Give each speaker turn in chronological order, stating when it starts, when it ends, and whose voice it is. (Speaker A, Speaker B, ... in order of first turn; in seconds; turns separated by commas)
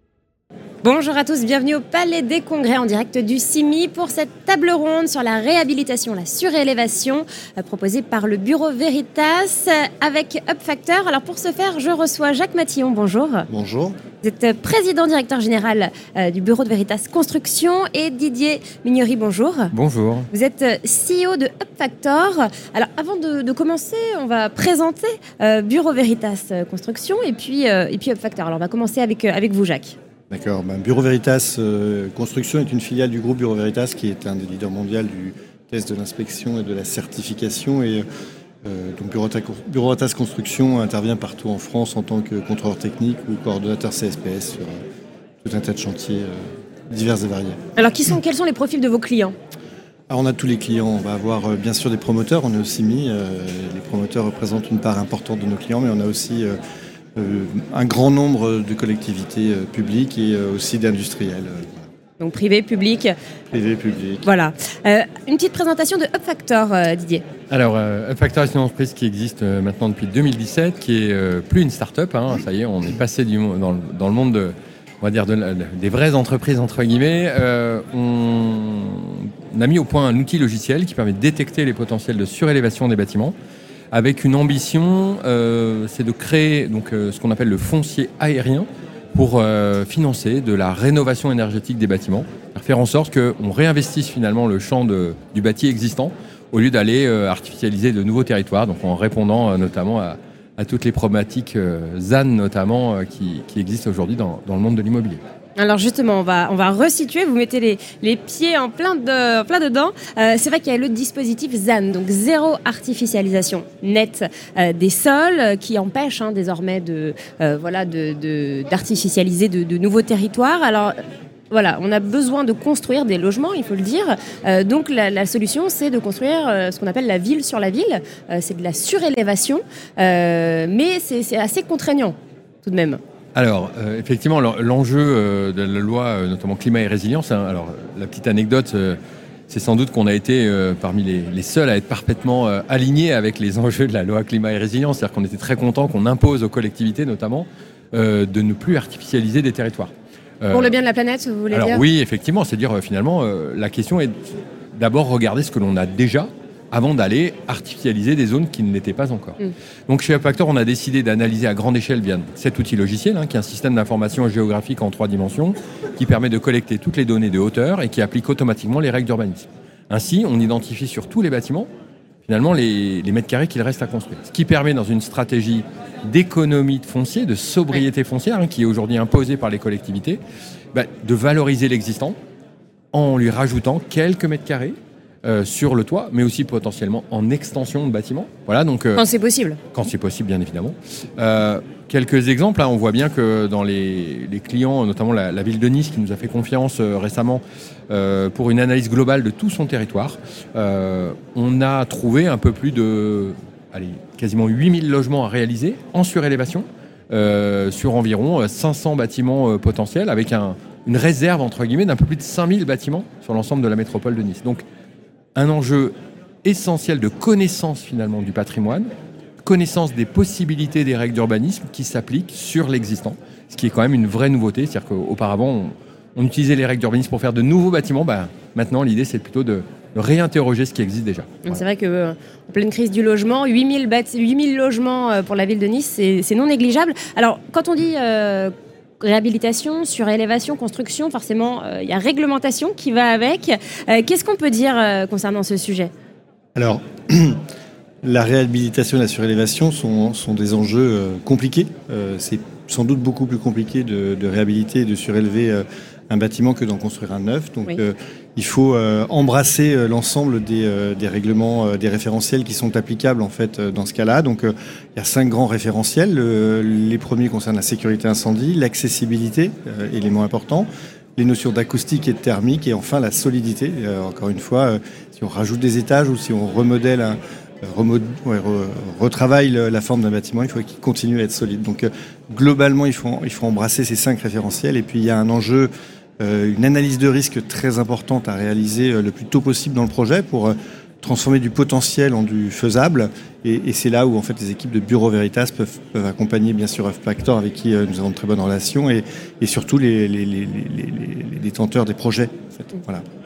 Speaker A: 0.8-13.5, Speaker B: 13.5-14.0, Speaker A: 14.2-19.7, Speaker C: 19.7-20.3, Speaker A: 20.3-30.0, Speaker B: 30.3-38.0, Speaker B: 38.6-44.7, Speaker B: 45.4-47.6, Speaker A: 47.8-49.3, Speaker B: 50.1-56.6, Speaker B: 57.2-61.9, Speaker A: 62.2-63.1, Speaker B: 63.5-64.3, Speaker A: 64.2-67.2, Speaker C: 67.5-83.3, Speaker C: 83.9-105.2, Speaker A: 105.6-120.9, Speaker A: 121.5-133.0, Speaker C: 133.3-139.0, Speaker C: 139.5-150.8, Speaker A: 150.5-151.8, Speaker C: 151.5-171.7, Speaker C: 172.3-180.2, Speaker C: 180.7-182.2, Speaker C: 182.9-189.1, Speaker A: 189.0-189.6, Speaker C: 189.7-214.6, Speaker C: 215.3-218.9, Speaker C: 219.4-231.6, Speaker A: 231.4-245.9, Speaker B: 246.6-247.4, Speaker B: 248.0-303.0